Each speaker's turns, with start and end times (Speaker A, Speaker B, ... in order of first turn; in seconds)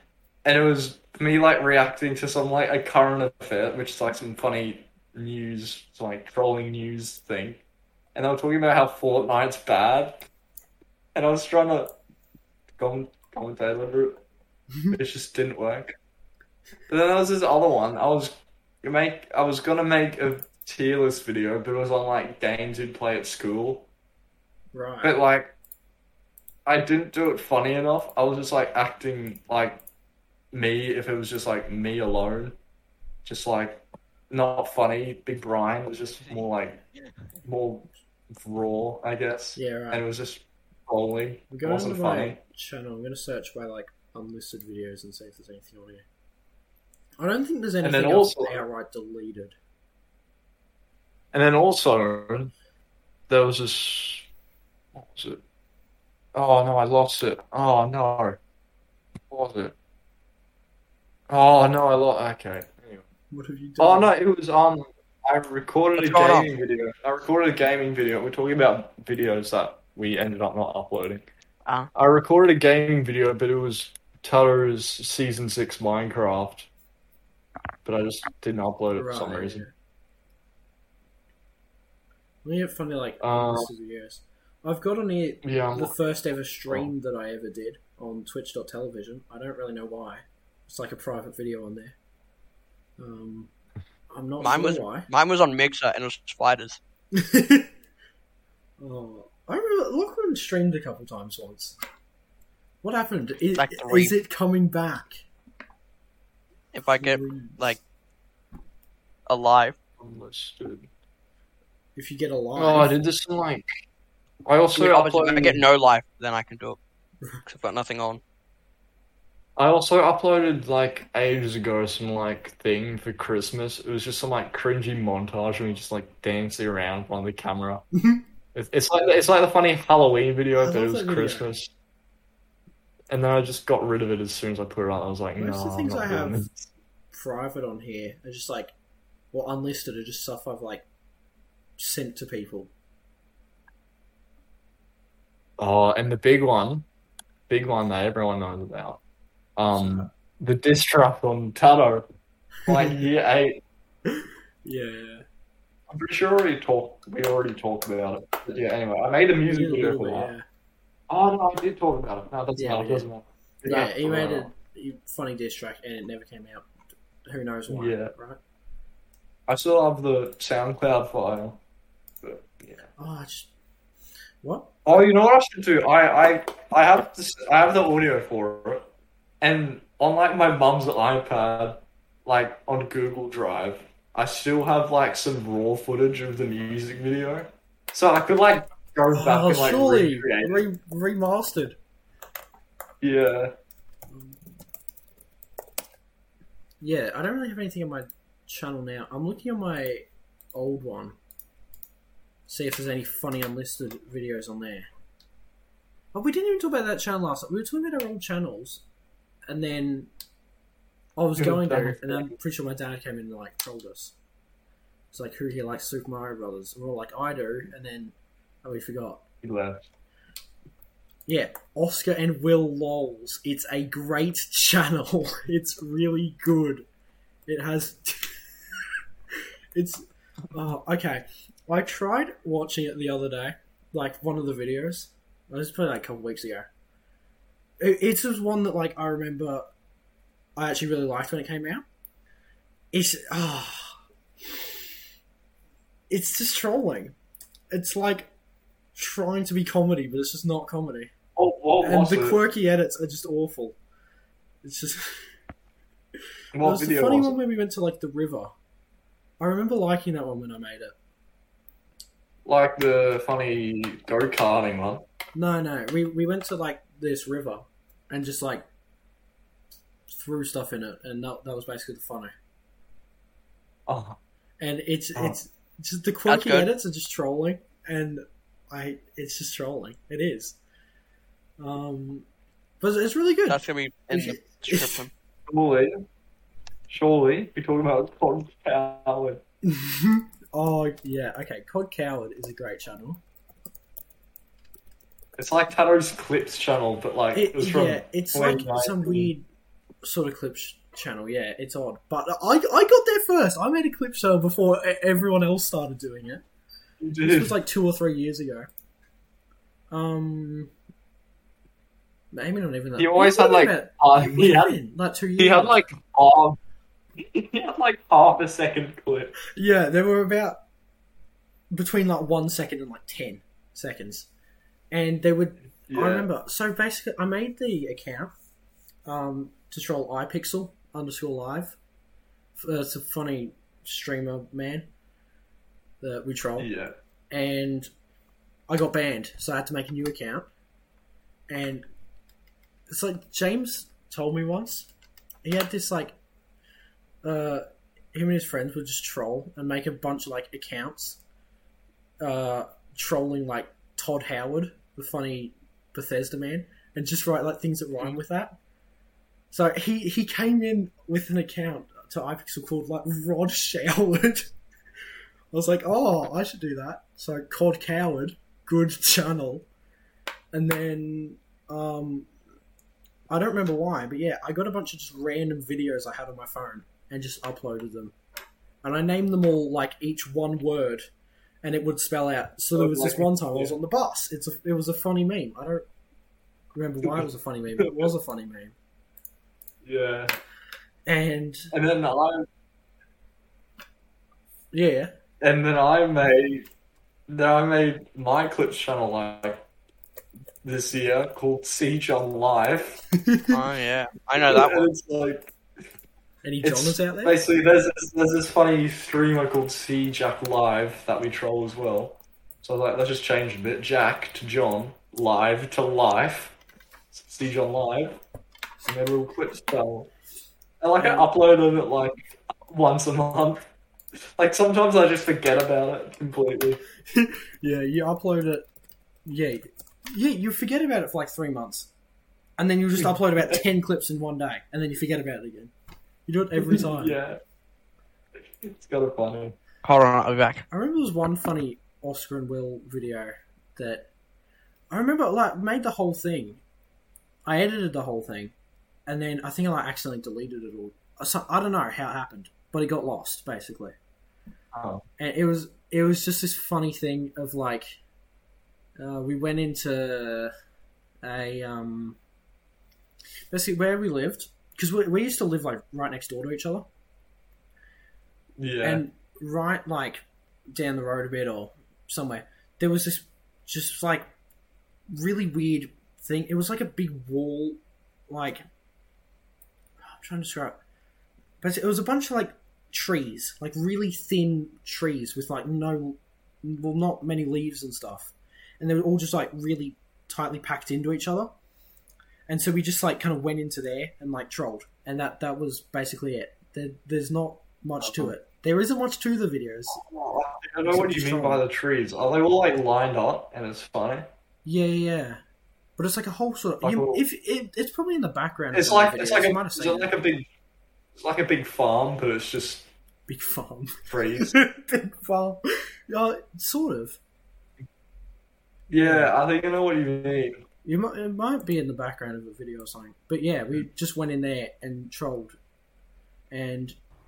Speaker A: 0.4-7.6, 8.1-10.2, 11.1-12.0, 12.8-14.2, 14.9-15.9, 16.9-23.9, 25.0-25.5, 26.6-29.8, 30.5-32.5, 33.2-36.8, 37.4-42.4, 47.8-48.6, 51.3-52.5, 53.3-54.3, 54.9-55.4, 56.3-58.4, 59.3-59.7, 61.3-63.1, 63.8-71.2, 71.9-76.7, 77.8-79.6, 83.2-83.7, 85.4-85.9, 110.0-110.9, 112.5-113.7, 114.5-115.6, 119.6-127.8, 128.5-131.7, 133.1-136.7, 145.6-146.9, 147.5-149.0, 149.6-152.1, 152.7-153.6, 155.9-160.3, 161.1-164.5, 167.7-168.1, 169.5-171.6, 172.2-172.8, 174.8-178.8, 179.4-190.6, 193.0-193.5, 211.4-212.3, 219.4-219.8, 251.4-252.4, 256.5-257.4, 262.4-265.0, 273.9-274.2, 285.5-286.0, 286.9-289.4, 295.4-299.3, 307.0-307.6, 313.0-314.8, 315.4-316.6, 317.2-319.3, 325.9-326.3, 336.6-336.9, 382.7-383.8, 387.8-388.1, 389.8-390.3, 391.7-392.5, 395.4-396.7, 397.3-399.6, 400.6-403.0, 404.4-405.5, 406.6-416.5, 417.1-418.2, 418.8-420.1, 420.8-422.2, 422.7-423.6, 424.4-426.8, 433.0-433.6, 436.6-437.4, 438.5-439.6, 454.7-455.0, 468.6-469.0, 498.0-498.3, 499.9-504.3, 506.8-507.2, 508.7-510.5, 511.1-512.9, 514.1-514.5, 518.9-520.6
Speaker B: 24.7-25.1, 39.5-40.0, 41.5-46.0, 47.2-49.5, 63.3-64.1, 79.0-79.7, 82.4-91.9, 93.0-93.5, 94.1-95.1, 97.1-97.7, 98.8-101.8, 102.8-105.2, 107.0-107.8, 112.0-112.9, 130.6-131.5, 135.4-136.4, 137.1-138.7, 139.3-140.8, 141.8-142.7, 149.7-150.1, 152.7-153.0, 154.1-155.2, 159.4-160.4, 162.6-163.1, 163.7-166.7, 167.2-168.4, 173.0-173.5, 174.4-175.0, 189.1-191.8, 194.1-194.4, 196.8-201.2, 202.5-204.9, 206.1-208.8, 209.5-210.1, 211.2-214.1, 215.1-219.2, 221.3-226.8, 227.5-228.4, 229.7-236.7, 237.8-239.7, 240.6-241.8, 242.9-243.9, 246.1-247.1, 247.7-248.3, 248.9-251.1, 251.8-253.8, 254.6-255.2, 256.6-258.5, 259.4-260.9, 265.3-268.6, 270.1-272.3, 274.6-280.6, 281.6-282.3, 282.8-285.1, 289.6-293.2, 297.3-299.4, 300.0-306.4, 307.2-308.7, 309.9-310.7, 312.3-315.9, 319.5-320.6, 321.7-324.3, 324.9-328.3, 329.1-331.8, 332.6-334.9, 336.0-336.7, 337.3-337.9, 338.7-340.4, 341.5-341.8, 342.9-344.9, 345.4-346.1, 347.2-351.2, 352.2-358.6, 359.5-364.5, 365.5-369.7, 370.5-372.3, 373.3-378.1, 378.8-381.1, 381.6-385.9, 386.7-388.7, 391.1-391.7, 394.7-395.1, 403.2-403.6, 406.4-407.4, 421.0-421.3, 427.1-428.6, 429.2-431.9, 432.6-435.7, 436.3-437.1, 440.7-444.1, 444.9-446.6, 447.4-448.5, 449.1-453.9, 455.2-457.9, 459.0-460.5, 461.2-462.2, 463.5-466.9, 468.8-474.2, 475.1-478.6, 480.0-480.8, 481.6-491.5, 492.5-500.0, 500.8-501.6, 504.6-505.4, 506.0-510.1, 513.3-517.2, 519.0-519.3, 520.8-525.5, 526.5-527.0
Speaker C: 66.0-66.5, 94.4-96.8, 103.5-104.1, 106.7-107.8, 109.2-109.8, 114.8-116.8, 117.5-118.2, 276.3-276.7, 283.5-285.1, 403.5-404.9, 439.8-440.6